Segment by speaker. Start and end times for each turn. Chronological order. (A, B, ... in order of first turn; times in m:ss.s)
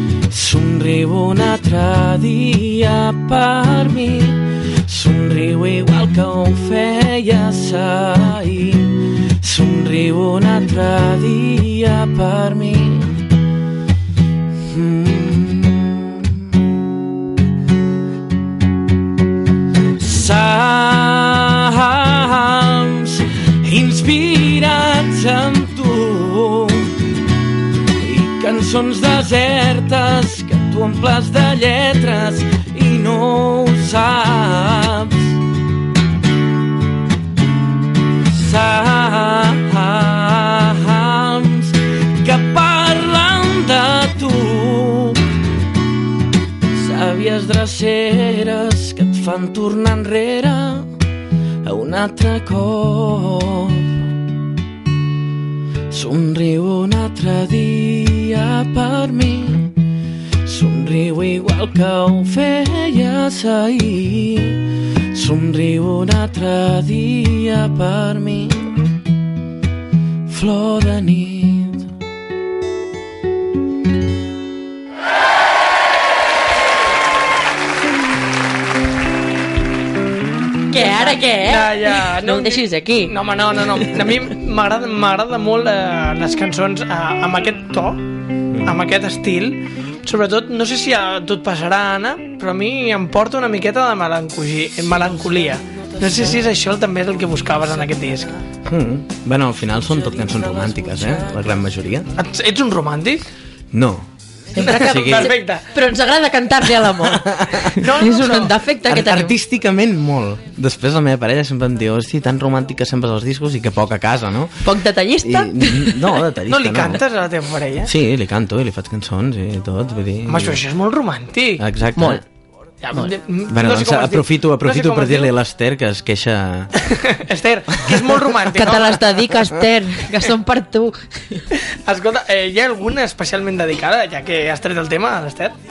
0:00.3-0:13.3 A
0:14.5-0:16.6 A
0:20.0-0:27.1 A
0:28.0-0:35.4 A
0:38.2-0:45.3 A
0:46.7-0:50.9 A
0:51.6-0:54.1 A
0:55.9-0:59.8 A
1:00.4-1:08.8 A
1:10.2-1:11.9 A
1:20.7-1:24.0 B
1:21.4-1:28.0 C
1:28.5-1:28.8 A
1:28.6-1:38.3 C
1:38.6-1:42.1 A
1:42.2-1:43.2 C
1:43.7-1:44.1 A
1:44.5-1:49.4 B
1:44.6-1:45.6 C
1:44.6-1:45.3 A
1:46.7-1:47.9 A
1:47.8-1:48.6 C
1:48.8-1:54.7 A
1:54.6-1:56.2 B
1:55.2-1:57.0 A
1:56.5-1:57.9 C
1:57.8-2:00.6 A
2:00.3-2:01.6 C
2:01.6-2:02.2 A
2:02.0-2:02.2 B
2:02.8-2:05.3 C
2:03.5-2:06.9 A
2:06.8-2:09.2 C
2:08.5-2:11.4 B
2:11.8-2:15.6 C